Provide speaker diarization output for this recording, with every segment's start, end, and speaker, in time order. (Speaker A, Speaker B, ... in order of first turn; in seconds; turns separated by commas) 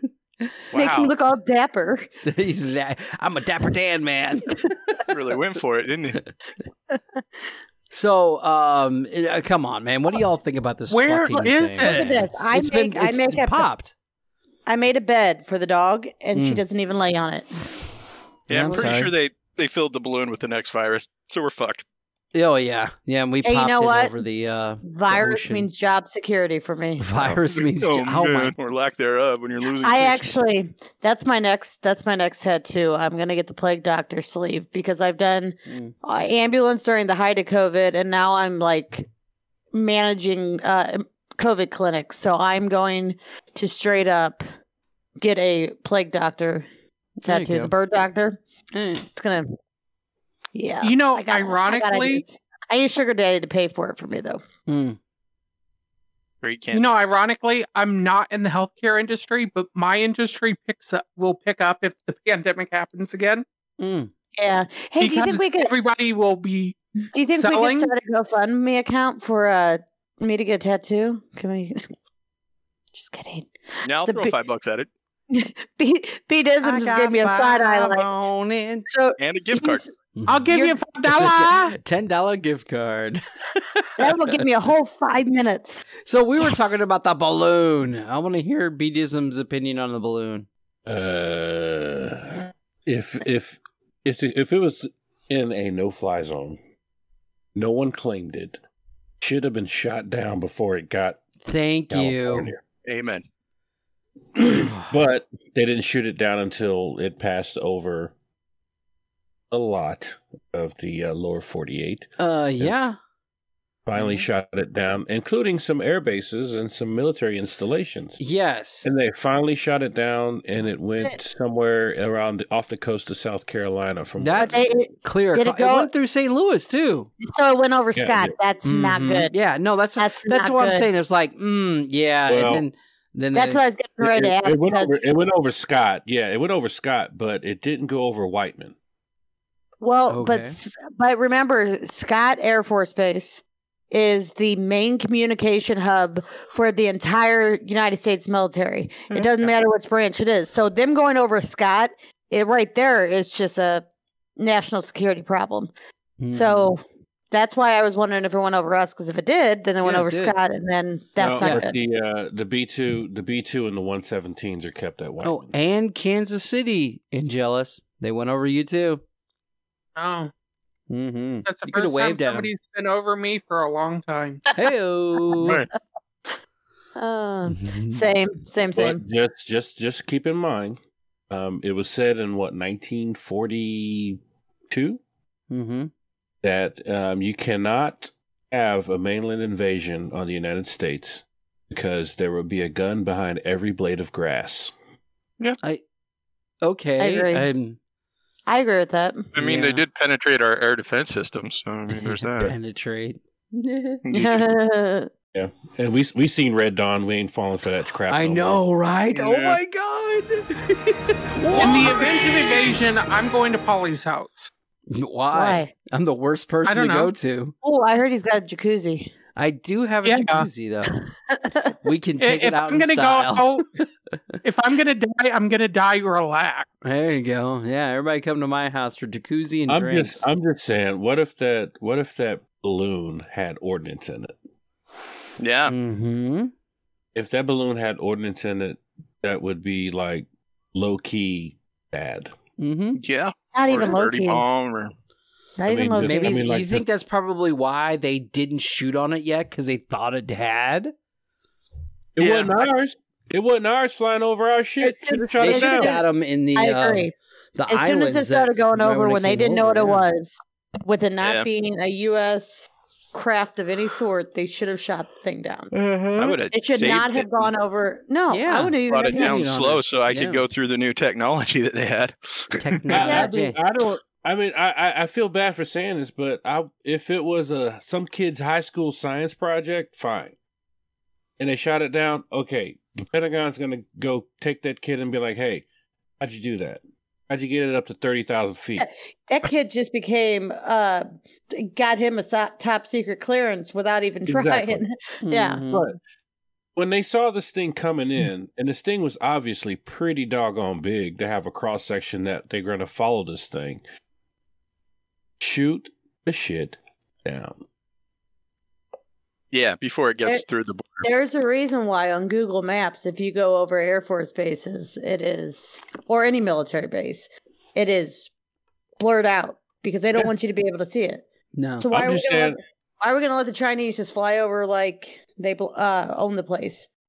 Speaker A: 0.7-1.1, Speaker B: 0.7-2.1, Speaker C: 2.2-4.7, Speaker A: 5.1-6.2, Speaker B: 6.9-7.2, Speaker C: 7.9-13.9, Speaker D: 10.9-12.2, Speaker B: 11.8-13.7, Speaker B: 14.7-17.7, Speaker C: 16.4-16.6, Speaker A: 18.5-21.8, Speaker C: 18.5-19.1, Speaker C: 22.3-25.7, Speaker B: 23.4-24.1, Speaker B: 24.8-27.1, Speaker C: 27.0-28.5, Speaker A: 27.5-30.3, Speaker B: 29.8-39.1, Speaker C: 35.7-36.0, Speaker B: 39.7-44.4, Speaker B: 45.2-46.7, Speaker C: 47.2-47.7, Speaker B: 47.3-48.4, Speaker C: 48.7-49.1, Speaker B: 49.1-49.5, Speaker B: 50.5-54.4, Speaker D: 50.8-52.2, Speaker C: 54.7-55.0, Speaker A: 56.4-56.9, Speaker D: 56.7-63.4, Speaker C: 63.8-64.1, Speaker B: 64.4-65.8, Speaker D: 65.0-66.8, Speaker B: 67.1-71.9, Speaker D: 67.3-67.9, Speaker B: 72.9-74.3, Speaker A: 73.8-74.9, Speaker B: 75.3-78.1, Speaker C: 76.6-78.9, Speaker B: 78.9-79.9, Speaker A: 79.2-79.8, Speaker C: 80.2-84.0, Speaker D: 80.3-81.7, Speaker B: 80.5-80.8, Speaker B: 84.0-85.8, Speaker C: 86.1-90.5, Speaker E: 90.9-96.6, Speaker E: 97.5-98.6, Speaker E: 99.2-101.2, Speaker C: 101.4-102.5, Speaker E: 101.9-102.6, Speaker A: 102.9-103.2, Speaker E: 104.5-108.1, Speaker E: 109.5-112.8, Speaker C: 112.2-113.0, Speaker E: 113.9-118.2, Speaker C: 118.2-118.9, Speaker E: 118.8-124.7, Speaker C: 124.2-127.1, Speaker B: 124.4-125.9, Speaker B: 127.2-129.3, Speaker E: 128.0-128.3, Speaker C: 128.7-133.6, Speaker B: 130.0-130.9, Speaker E: 132.3-132.7, Speaker B: 133.3-135.1, Speaker E: 134.0-138.7, Speaker B: 139.8-153.9, Speaker C: 140.1-140.6, Speaker B: 154.4-155.7, Speaker C: 156.2-156.7, Speaker B: 156.3-161.8, Speaker C: 159.8-160.4, Speaker E: 161.2-165.5, Speaker C: 161.4-161.7, Speaker C: 165.2-169.0, Speaker D: 170.0-170.3, Speaker C: 170.9-172.5, Speaker D: 171.4-174.4, Speaker C: 174.6-175.6, Speaker A: 175.4-175.7, Speaker B: 177.0-179.0, Speaker C: 177.5-178.1, Speaker E: 178.7-185.0, Speaker C: 185.5-185.9, Speaker E: 186.4-194.7, Speaker C: 196.6-197.8, Speaker B: 197.0-197.5, Speaker B: 198.5-199.3, Speaker A: 199.3-202.5, Speaker C: 199.4-199.8, Speaker C: 202.4-204.0, Speaker A: 204.1-204.5, Speaker B: 204.1-205.1, Speaker E: 205.3-208.6, Speaker C: 208.1-212.8, Speaker A: 209.1-209.6, Speaker D: 211.6-214.5, Speaker C: 214.9-217.5, Speaker B: 215.3-215.7, Speaker D: 216.7-217.1, Speaker B: 217.6-219.1, Speaker C: 219.4-221.0, Speaker D: 220.0-220.5, Speaker B: 220.9-221.7, Speaker C: 221.8-223.9, Speaker D: 222.2-223.7, Speaker D: 224.4-226.7, Speaker C: 226.8-230.3, Speaker E: 229.7-234.4, Speaker A: 235.4-235.7, Speaker C: 235.7-236.5, Speaker E: 237.2-242.3, Speaker C: 242.6-243.0, Speaker A: 243.0-244.9, Speaker B: 243.5-244.4, Speaker B: 245.6-246.5, Speaker E: 245.7-246.8, Speaker C: 246.0-250.9, Speaker E: 252.2-256.0, Speaker A: 252.2-252.7, Speaker B: 254.8-257.1, Speaker C: 255.4-260.0, Speaker B: 257.7-265.7, Speaker A: 261.2-261.5, Speaker C: 265.8-266.2, Speaker E: 265.9-266.3, Speaker A: 266.2-267.5, Speaker B: 266.5-269.4, Speaker C: 268.3-270.4, Speaker A: 268.9-273.1, Speaker C: 272.6-273.6, Speaker E: 272.9-280.4, Speaker B: 272.9-273.3, Speaker E: 281.4-285.7, Speaker E: 286.2-288.9, Speaker B: 288.8-295.9, Speaker E: 294.3-294.8, Speaker C: 295.2-295.8, Speaker E: 296.8-303.8, Speaker E: 305.4-307.6, Speaker A: 309.5-311.1, Speaker B: 311.0-318.3, Speaker B: 319.0-321.3, Speaker C: 321.6-321.9, Speaker B: 321.8-326.9, Speaker E: 321.9-322.6